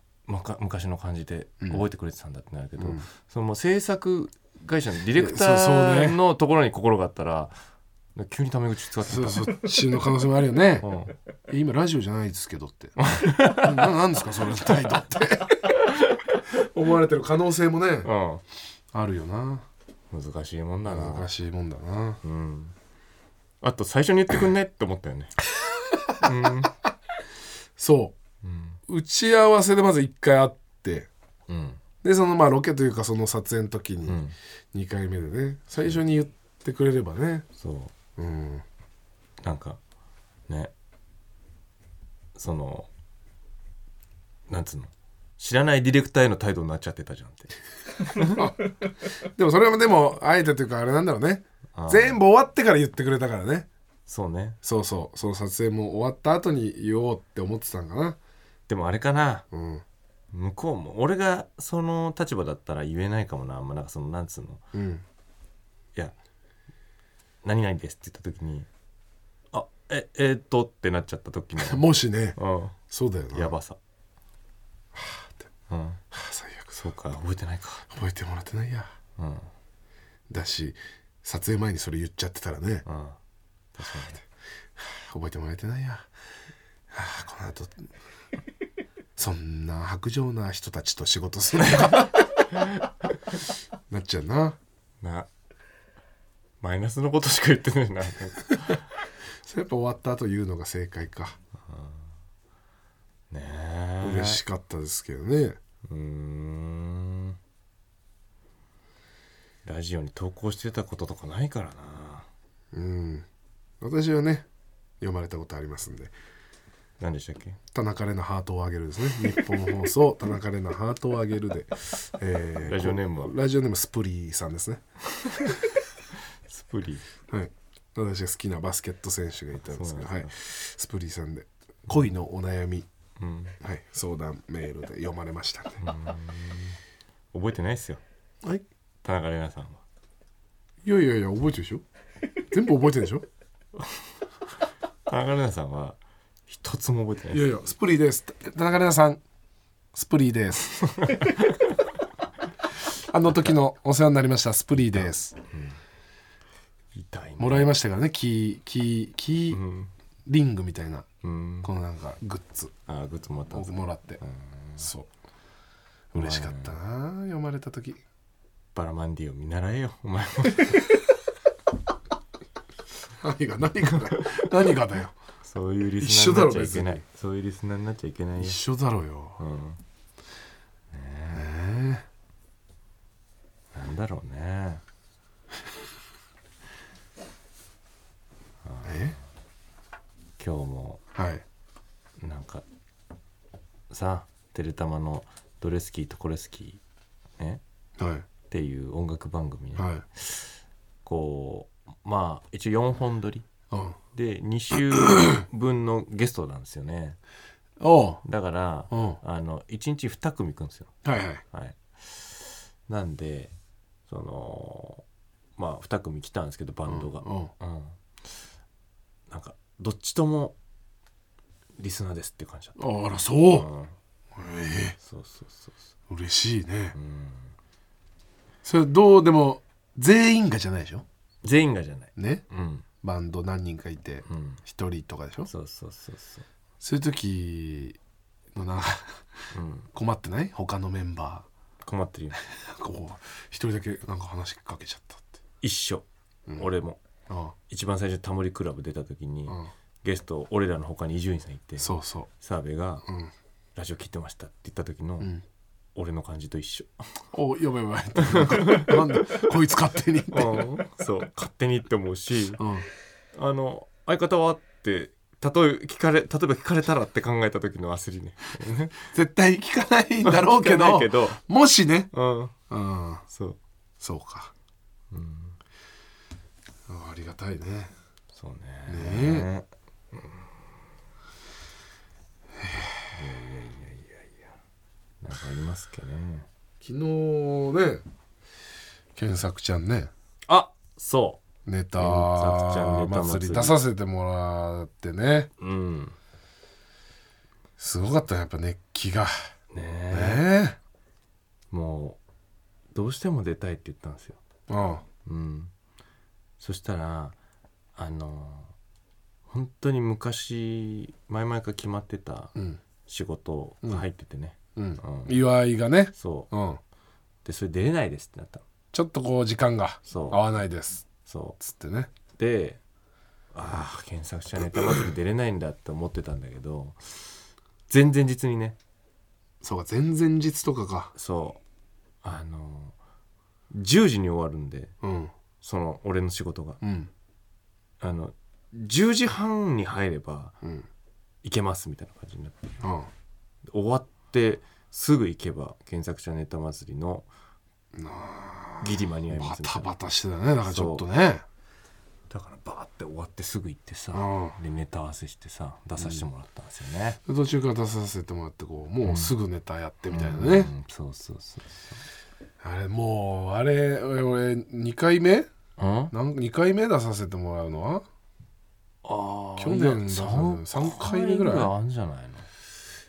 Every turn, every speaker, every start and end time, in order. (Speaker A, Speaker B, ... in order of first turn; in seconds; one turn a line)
Speaker A: 0.3-7.5
Speaker B: 2.8-3.1
Speaker B: 5.1-6.2
Speaker A: 8.2-9.7
Speaker B: 9.0-10.9
Speaker A: 10.8-11.2
Speaker B: 11.5-15.7
Speaker A: 13.0-13.9
Speaker A: 15.6-16.4
Speaker B: 16.5-18.1
Speaker A: 18.0-18.4
Speaker B: 18.9-19.7
Speaker A: 20.1-21.3
Speaker B: 20.9-22.2
Speaker A: 22.2-22.8
Speaker A: 23.6-25.4
Speaker A: 26.2-26.8
Speaker B: 27.8-28.2
Speaker A: 28.4-28.8
Speaker B: 28.9-31.1
Speaker A: 31.5-31.8
Speaker B: 32.0-34.2
Speaker A: 34.1-34.4
Speaker B: 34.7-37.5
Speaker A: 37.6-37.9
Speaker B: 38.2-38.6
Speaker A: 39.4-39.8
Speaker A: 42.4-42.9
Speaker A: 44.5-48.4
Speaker B: 48.2-53.7
Speaker A: 51.7-52.2
Speaker A: 54.1-54.6
Speaker B: 54.6-58.2
Speaker A: 58.7-59.5
Speaker B: 59.5-59.8
Speaker A: 60.3-64.6
Speaker B: 64.7-65.0
Speaker A: 67.4-68.7
Speaker A: 69.5-72.8
Speaker B: 71.6-72.4
Speaker B: 72.9-73.5
Speaker A: 73.3-73.8
Speaker B: 75.0-75.3
Speaker A: 75.7-76.0
Speaker B: 76.1-76.8
Speaker A: 76.7-77.9
Speaker B: 77.9-78.9
Speaker A: 79.2-79.5
Speaker B: 80.3-82.9
Speaker A: 82.9-83.2
Speaker A: 83.8-84.2
Speaker B: 84.8-86.1
Speaker B: 86.9-87.9
Speaker B: 89.2-92.2
Speaker A: 91.8-93.4
Speaker B: 93.9-94.6
Speaker A: 95.0-95.3
Speaker A: 96.6-98.9
Speaker B: 99.5-101.4
Speaker A: 101.7-102.0
Speaker A: 103.3-104.4
Speaker B: 104.0-105.6
Speaker A: 105.9-107.4
Speaker A: 109.7-112.3
Speaker B: 112.7-113.3
Speaker B: 113.8-114.5
Speaker B: 115.0-116.1
Speaker A: 117.0-117.6
Speaker B: 117.7-124.8
Speaker A: 122.6-123.3
Speaker A: 125.2-125.6
Speaker A: 126.5-127.0
Speaker B: 127.3-132.9
Speaker A: 129.7-130.3
Speaker A: 133.2-133.6
Speaker B: 133.6-135.8
Speaker A: 135.8-136.8
Speaker A: 137.3-138.0
Speaker A: 139.0-139.8
Speaker B: 140.8-141.8
Speaker B: 142.5-143.2
Speaker A: 145.1-147.6
Speaker B: 147.3-149.2
Speaker B: 149.9-150.7
Speaker A: 150.9-151.7
Speaker B: 153.1-155.3
Speaker A: 154.9-155.8
Speaker A: 156.9-157.8
Speaker B: 157.4-159.6
Speaker A: 159.5-159.9
Speaker B: 160.3-161.1
Speaker A: 161.2-161.7
Speaker B: 161.6-162.7
Speaker A: 162.9-164.9
Speaker B: 163.5-164.2
Speaker B: 164.8-165.1
Speaker B: 166.1-168.0
Speaker A: 166.2-166.8
Speaker A: 168.7-171.0
Speaker B: 173.2-175.2
Speaker A: 175.4-178.6
Speaker B: 176.0-177.0
Speaker B: 178.4-179.4
Speaker A: 179.4-179.8
Speaker A: 180.9-181.5
Speaker B: 181.3-182.1
Speaker A: 183.7-184.8
Speaker A: 188.6-189.1
Speaker B: 188.8-189.2
Speaker A: 190.4-191.0
Speaker B: 191.2-191.4
Speaker A: 192.2-192.7
Speaker A: 193.9-196.8
Speaker B: 198.0-198.2
Speaker A: 198.5-203.5
Speaker B: 199.8-200.0
Speaker B: 203.7-204.0
Speaker A: 204.1-207.2
Speaker B: 207.8-208.2
Speaker A: 208.2-210.9
Speaker B: 208.9-209.2
Speaker B: 211.0-211.4
Speaker A: 211.5-213.5
Speaker A: 214.1-215.0
Speaker A: 215.6-218.0
Speaker B: 216.9-217.5
Speaker A: 219.3-220.6
Speaker A: 221.8-222.8
Speaker B: 222.8-223.7
Speaker A: 223.4-223.9
Speaker B: 224.4-225.0
Speaker A: 225.0-225.8
Speaker B: 226.1-227.0
Speaker A: 226.9-227.5
Speaker B: 228.6-231.0
Speaker A: 231.4-232.8
Speaker B: 232.2-232.4
Speaker B: 233.0-235.5
Speaker A: 234.3-234.6
Speaker A: 235.5-236.4
Speaker B: 236.8-238.0
Speaker B: 238.6-239.2
Speaker A: 239.5-239.9
Speaker B: 239.9-241.5
Speaker A: 241.8-242.4
Speaker B: 242.5-245.3
Speaker A: 245.6-247.0
Speaker B: 247.3-247.5
Speaker A: 247.7-253.1
Speaker B: 251.8-252.3
Speaker B: 253.1-253.3
Speaker A: 253.8-255.3
Speaker A: 255.9-257.3
Speaker B: 257.3-260.7
Speaker A: 258.2-259.4
Speaker A: 260.3-262.6
Speaker B: 262.6-262.9
Speaker A: 263.4-268.9
Speaker B: 269.1-272.1
Speaker A: 270.2-271.4
Speaker A: 272.1-272.5
Speaker B: 272.7-273.2
Speaker A: 273.3-273.6
Speaker B: 274.0-274.5
Speaker A: 275.1-275.6
Speaker B: 276.9-277.9
Speaker A: 278.3-279.7
Speaker B: 278.9-279.5
Speaker B: 282.6-283.1
Speaker A: 283.1-284.4
Speaker A: 285.2-286.5
Speaker B: 286.8-288.0
Speaker B: 289.2-290.1
Speaker A: 290.5-291.4
Speaker B: 291.6-295.5
Speaker A: 291.9-293.8
Speaker A: 295.6-296.2
Speaker B: 297.8-299.3
Speaker A: 299.7-300.5
Speaker B: 300.1-300.8
Speaker A: 301.7-302.2
Speaker A: 302.9-304.4
Speaker B: 304.7-305.0
Speaker A: 305.2-305.7
Speaker A: 306.6-307.4
Speaker A: 308.0-308.7
Speaker A: 309.5-312.5
Speaker A: 313.1-315.4
Speaker B: 314.8-316.8
Speaker A: 316.1-316.5
Speaker A: 317.4-318.6
Speaker B: 318.9-321.1
Speaker A: 320.1-320.4
Speaker A: 321.2-321.6
Speaker B: 321.6-322.1
Speaker A: 322.4-322.8
Speaker A: 323.5-327.4
Speaker A: 327.9-328.8
Speaker B: 329.6-331.1
Speaker A: 331.1-331.6
Speaker A: 332.2-332.9
Speaker A: 333.7-334.9
Speaker B: 335.0-335.3
Speaker A: 335.6-336.8
Speaker B: 336.8-337.1
Speaker A: 338.0-340.6
Speaker B: 340.6-340.9
Speaker A: 341.4-342.7
Speaker B: 342.8-343.1
Speaker A: 343.7-347.3
Speaker B: 347.9-351.4
Speaker A: 348.8-349.9
Speaker A: 350.6-351.1
Speaker A: 352.3-357.2
Speaker B: 354.1-354.6
Speaker B: 356.0-356.3
Speaker B: 357.2-360.7
Speaker A: 359.0-359.3
Speaker A: 360.1-362.0
Speaker B: 362.6-365.5
Speaker A: 365.8-366.1
Speaker B: 366.1-368.1
Speaker A: 369.0-372.5
Speaker B: 369.6-371.7